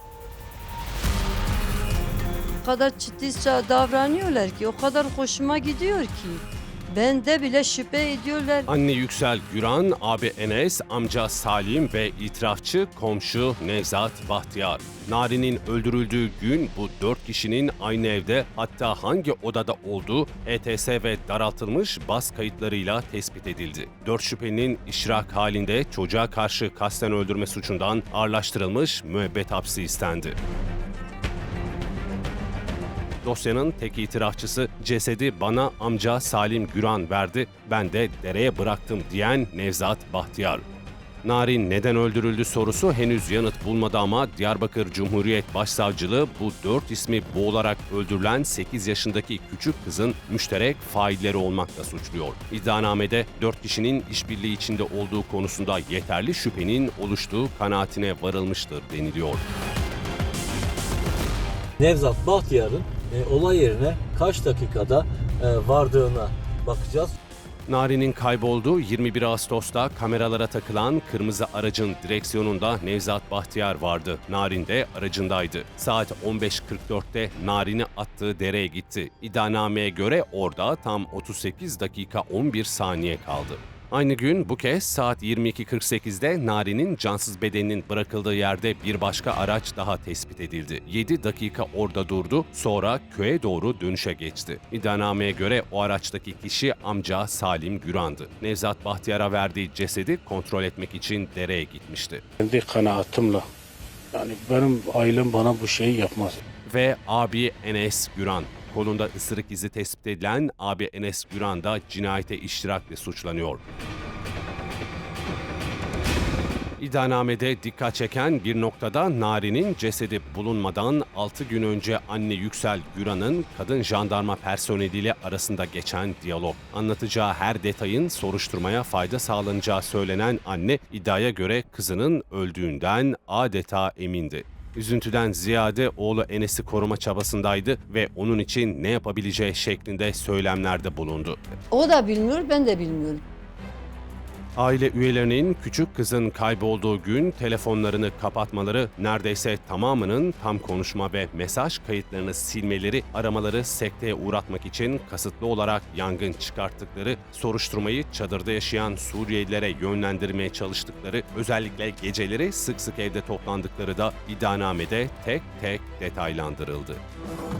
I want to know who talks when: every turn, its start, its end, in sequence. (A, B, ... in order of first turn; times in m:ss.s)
0:02.6-0:08.7 A
0:08.7-0:30.4 B
0:33.2-0:40.6 B
0:41.2-0:59.4 B
1:01.8-1:07.2 C
1:07.7-1:42.2 B
1:42.4-1:43.4 D
1:44.1-1:46.4 D
1:46.7-1:53.6 B
1:56.8-2:21.4 B
2:21.7-2:23.2 A
2:24.6-2:47.0 B